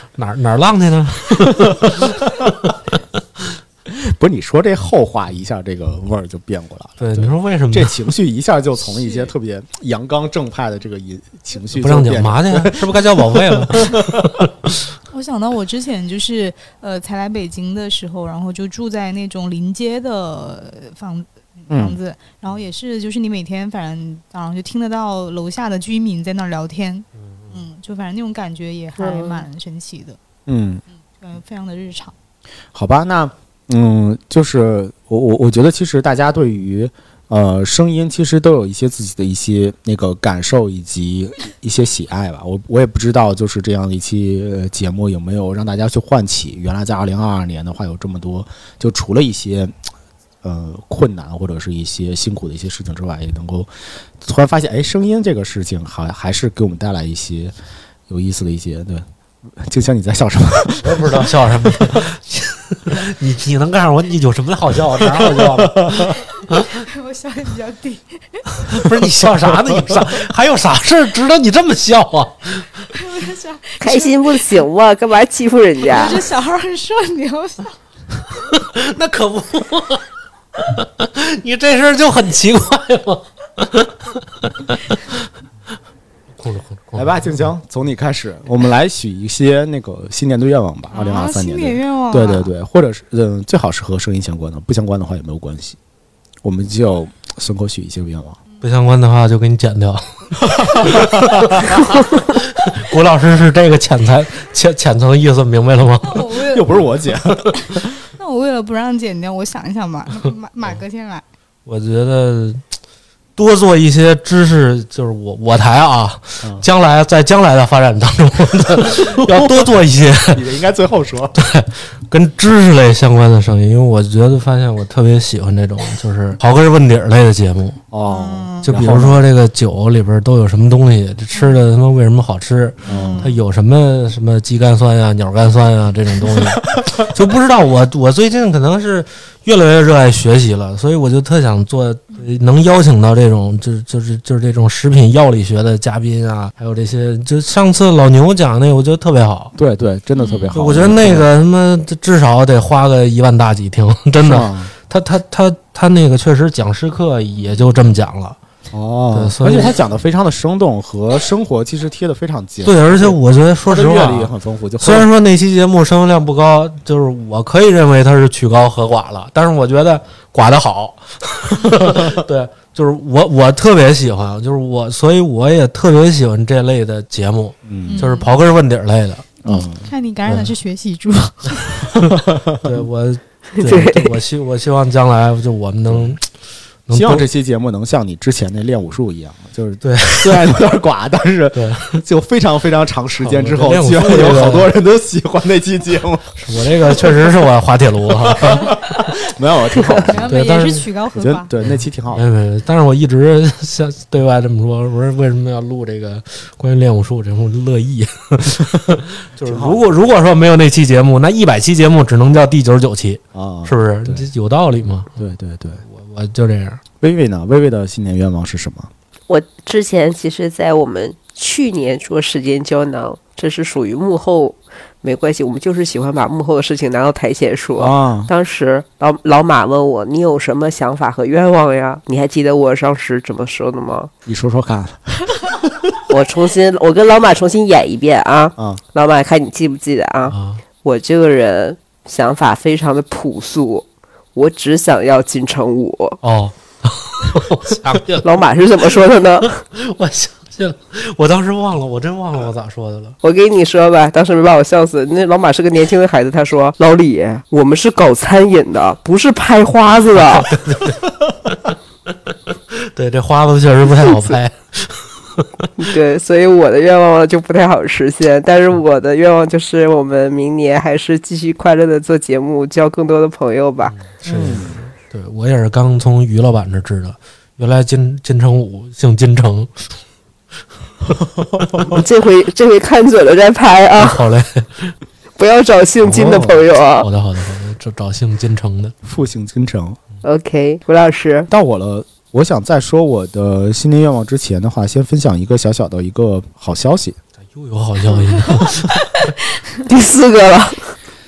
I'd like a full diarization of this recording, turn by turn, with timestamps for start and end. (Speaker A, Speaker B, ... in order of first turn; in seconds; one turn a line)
Speaker A: 0.1-2.8
Speaker B: 3.9-14.3
Speaker A: 7.0-8.0
Speaker C: 8.8-9.3
Speaker A: 11.7-14.7
Speaker C: 15.1-30.2
Speaker B: 21.7-22.0
Speaker D: 29.0-29.4
Speaker B: 30.4-30.8
Speaker C: 31.1-32.1
Speaker B: 32.7-49.7
Speaker B: 50.4-57.5
Speaker B: 58.1-59.0
Speaker B: 59.6-62.0
Speaker A: 60.8-66.7
Speaker B: 65.0-66.1
Speaker C: 66.4-68.5
Speaker A: 68.7-72.8
Speaker B: 69.5-70.0
Speaker C: 72.9-74.6
Speaker D: 73.8-76.2
Speaker C: 75.8-77.8
Speaker A: 78.5-80.0
Speaker A: 80.6-85.3
Speaker A: 86.4-87.5
Speaker B: 86.9-95.8
Speaker C: 90.9-92.5
Speaker B: 96.4-98.4
Speaker A: 98.6-106.3
Speaker B: 100.4-101.8
Speaker C: 106.0-106.7
Speaker B: 106.5-107.8
Speaker C: 107.5-111.2
Speaker A: 111.7-112.6
Speaker A: 113.3-120.4
Speaker B: 116.4-116.7
Speaker B: 119.3-119.7
Speaker B: 120.3-121.4
Speaker A: 121.4-127.8
Speaker B: 127.9-129.2
Speaker C: 128.0-128.7
Speaker A: 128.6-149.5
Speaker C: 132.9-133.3
Speaker B: 132.9-133.3
Speaker B: 149.5-151.3
Speaker C: 150.2-150.6
Speaker A: 150.5-158.4
Speaker B: 154.2-154.7
Speaker C: 157.3-157.7
Speaker B: 158.7-165.1
Speaker A: 159.1-159.8
Speaker A: 162.6-179.3
Speaker B: 171.7-172.2
Speaker B: 177.6-178.1
Speaker C: 177.9-178.3
Speaker B: 179.4-180.4
Speaker C: 179.4-181.8
Speaker B: 181.9-182.8
Speaker A: 182.6-186.2
Speaker D: 183.6-184.2
Speaker B: 185.9-186.2
Speaker A: 186.9-187.2
Speaker B: 186.9-197.2
Speaker A: 189.8-190.6
Speaker A: 191.5-192.0
Speaker A: 193.2-194.7
Speaker A: 196.4-198.8
Speaker B: 198.2-200.3
Speaker C: 200.0-201.5
Speaker A: 200.3-200.9
Speaker B: 201.1-202.2
Speaker A: 201.6-215.2
Speaker B: 209.4-209.8
Speaker B: 213.3-214.3
Speaker B: 215.2-215.8
Speaker A: 215.8-216.8
Speaker B: 217.0-218.9
Speaker D: 219.3-234.1
Speaker B: 227.8-228.3
Speaker B: 234.2-235.9
Speaker D: 236.1-246.2
Speaker B: 238.6-238.8
Speaker A: 240.2-240.6
Speaker A: 246.2-253.2
Speaker D: 248.2-249.6
Speaker D: 253.2-260.6
Speaker A: 260.1-261.7
Speaker A: 262.7-265.7
Speaker D: 264.0-264.4
Speaker D: 265.8-273.9
Speaker A: 273.9-279.9
Speaker B: 274.2-274.8
Speaker B: 281.4-281.9
Speaker D: 281.9-284.2
Speaker A: 284.0-284.9
Speaker D: 285.4-287.1
Speaker A: 286.0-288.9
Speaker B: 289.0-290.0
Speaker D: 290.2-291.5
Speaker B: 291.5-297.2
Speaker A: 297.5-299.1
Speaker D: 299.8-300.9